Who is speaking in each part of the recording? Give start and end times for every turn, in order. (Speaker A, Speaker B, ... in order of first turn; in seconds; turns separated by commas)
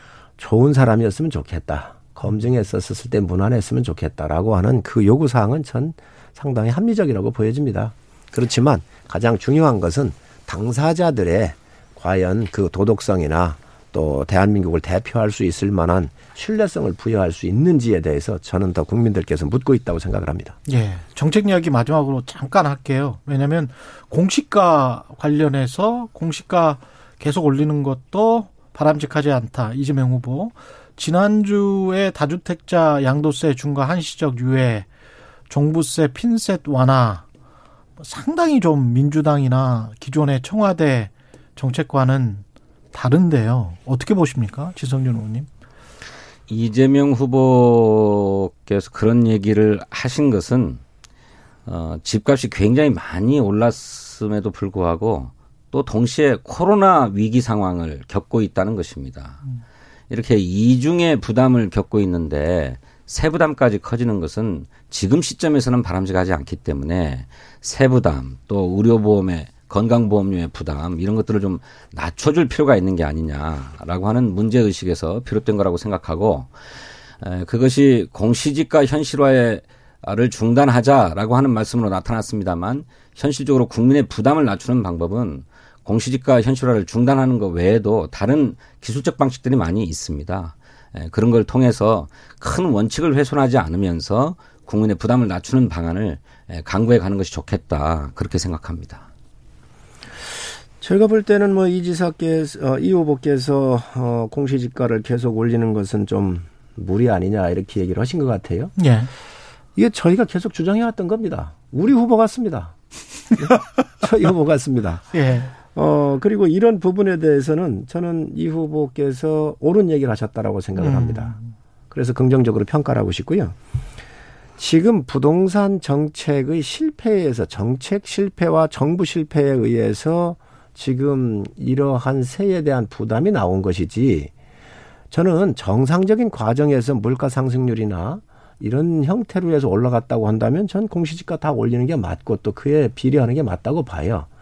Speaker A: 0.4-20.6, Speaker B: 20.7-34.9, Speaker B: 35.5-37.2, Speaker B: 38.0-45.5, Speaker C: 46.5-50.8, Speaker C: 51.6-59.4, Speaker C: 60.1-76.5, Speaker C: 77.2-99.0, Speaker A: 100.8-108.7, Speaker B: 108.8-109.1, Speaker A: 109.8-112.7, Speaker A: 113.3-115.0, Speaker B: 115.1-115.5, Speaker A: 115.7-121.3, Speaker B: 120.8-121.4, Speaker A: 121.9-123.5, Speaker A: 124.6-134.3, Speaker A: 135.1-144.3